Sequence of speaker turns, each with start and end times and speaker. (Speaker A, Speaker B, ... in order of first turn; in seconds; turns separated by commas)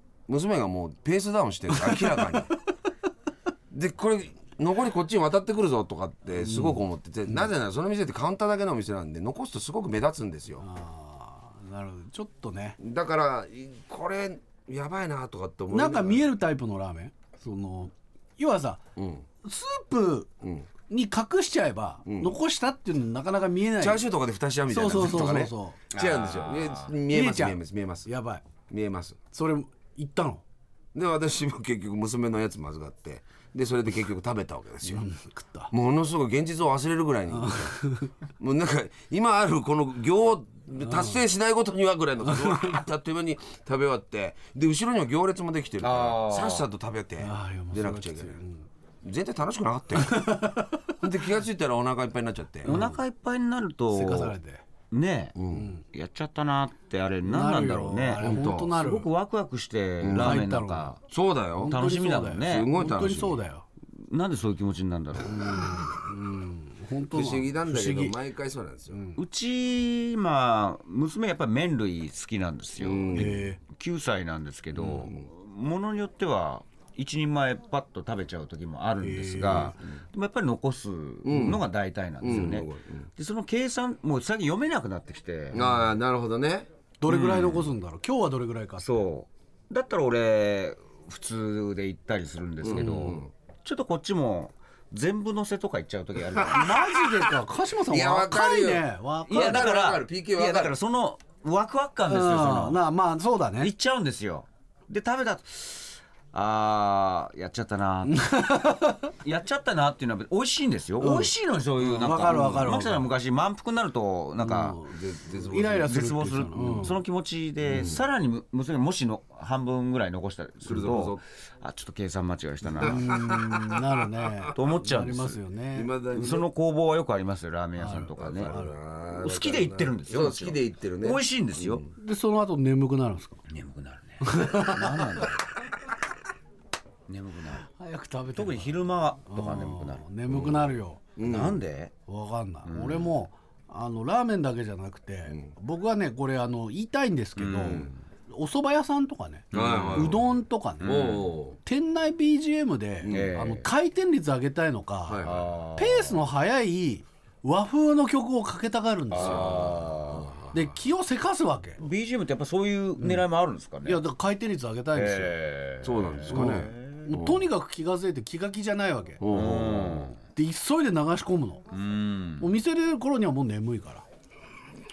Speaker A: 0.3-2.5, Speaker B: 1.7-2.3, Speaker A: 3.7-10.6, Speaker B: 6.4-6.8, Speaker B: 10.6-12.8, Speaker A: 12.8-16.2, Speaker B: 15.7-18.8, Speaker A: 19.0-19.3, Speaker B: 19.4-20.3, Speaker A: 20.4-20.7, Speaker B: 20.9-24.0, Speaker A: 22.1-22.4, Speaker A: 23.8-28.1, Speaker B: 24.7-25.8, Speaker C: 25.9-27.0, Speaker B: 27.1-28.4, Speaker A: 28.7-29.2, Speaker B: 29.3-30.4, Speaker A: 30.9-35.1, Speaker B: 34.9-35.7, Speaker A: 35.7-37.8, Speaker B: 37.3-38.1, Speaker A: 38.4-48.4, Speaker B: 40.7-41.2, Speaker B: 42.3-42.8, Speaker C: 45.8-46.7, Speaker B: 47.2-48.7, Speaker A: 49.0-50.4, Speaker B: 50.0-50.8, Speaker A: 51.0-52.8, Speaker C: 52.6-54.3, Speaker B: 52.7-53.0, Speaker B: 53.9-54.6, Speaker C: 54.9-55.4, Speaker A: 55.4-55.7, Speaker B: 55.5-55.8, Speaker C: 55.9-61.0, Speaker B: 57.2-59.1, Speaker A: 58.2-58.7, Speaker A: 60.0-60.5, Speaker B: 60.1-60.9, Speaker A: 61.1-61.8, Speaker B: 61.6-63.7, Speaker C: 61.7-62.7, Speaker A: 62.4-63.4, Speaker C: 64.0-65.7, Speaker B: 65.3-68.2, Speaker A: 67.1-69.0, Speaker B: 68.9-69.2, Speaker C: 69.2-85.7, Speaker A: 72.8-73.4, Speaker B: 73.1-73.6, Speaker A: 74.7-75.3, Speaker B: 79.0-79.8, Speaker A: 79.5-79.9, Speaker A: 81.2-81.6, Speaker A: 82.2-83.1, Speaker A: 85.5-86.7, Speaker B: 87.0-89.1, Speaker C: 87.1-87.7, Speaker C: 88.8-96.8, Speaker A: 92.6-93.3, Speaker B: 92.8-93.2, Speaker A: 96.4-96.7, Speaker B: 96.5-99.7, Speaker A: 97.9-100.7, Speaker C: 99.3-102.8, Speaker B: 102.1-103.7, Speaker C: 103.6-108.3, Speaker B: 108.1-109.1, Speaker C: 109.2-114.8, Speaker B: 111.0-113.1, Speaker B: 114.4-117.0, Speaker A: 114.9-115.9, Speaker C: 115.9-123.2, Speaker A: 117.7-118.0, Speaker A: 120.6-121.2, Speaker A: 122.8-123.8, Speaker B: 122.8-125.9, Speaker C: 124.5-125.4, Speaker A: 125.7-126.5, Speaker C: 126.1-128.5, Speaker B: 127.8-128.7, Speaker A: 128.2-131.9, Speaker C: 129.2-131.8, Speaker B: 132.0-133.4, Speaker C: 133.5-135.4, Speaker B: 134.2-135.3, Speaker C: 137.1-137.7, Speaker B: 137.8-141.0, Speaker C: 138.3-140.1, Speaker A: 140.3-141.6, Speaker C: 141.2-141.9, Speaker B: 142.1-159.7, Speaker C: 142.7-143.1, Speaker C: 147.4-148.0, Speaker C: 149.5-150.2, Speaker A: 149.5-150.3, Speaker C: 150.8-151.3, Speaker A: 150.8-151.6, Speaker A: 153.0-153.3, Speaker C: 153.1-153.7, Speaker A: 155.1-155.5, Speaker C: 155.2-156.3, Speaker C: 159.1-160.3, Speaker A: 159.2-160.7, Speaker B: 160.5-161.8, Speaker C: 161.8-164.1, Speaker B: 163.0-163.2, Speaker B: 163.8-165.3, Speaker C: 164.9-167.1, Speaker A: 165.8-167.5, Speaker B: 166.3-169.2, Speaker A: 169.2-170.2, Speaker C: 169.3-170.2, Speaker B: 170.3-171.6, Speaker C: 171.7-172.5, Speaker B: 172.4-174.1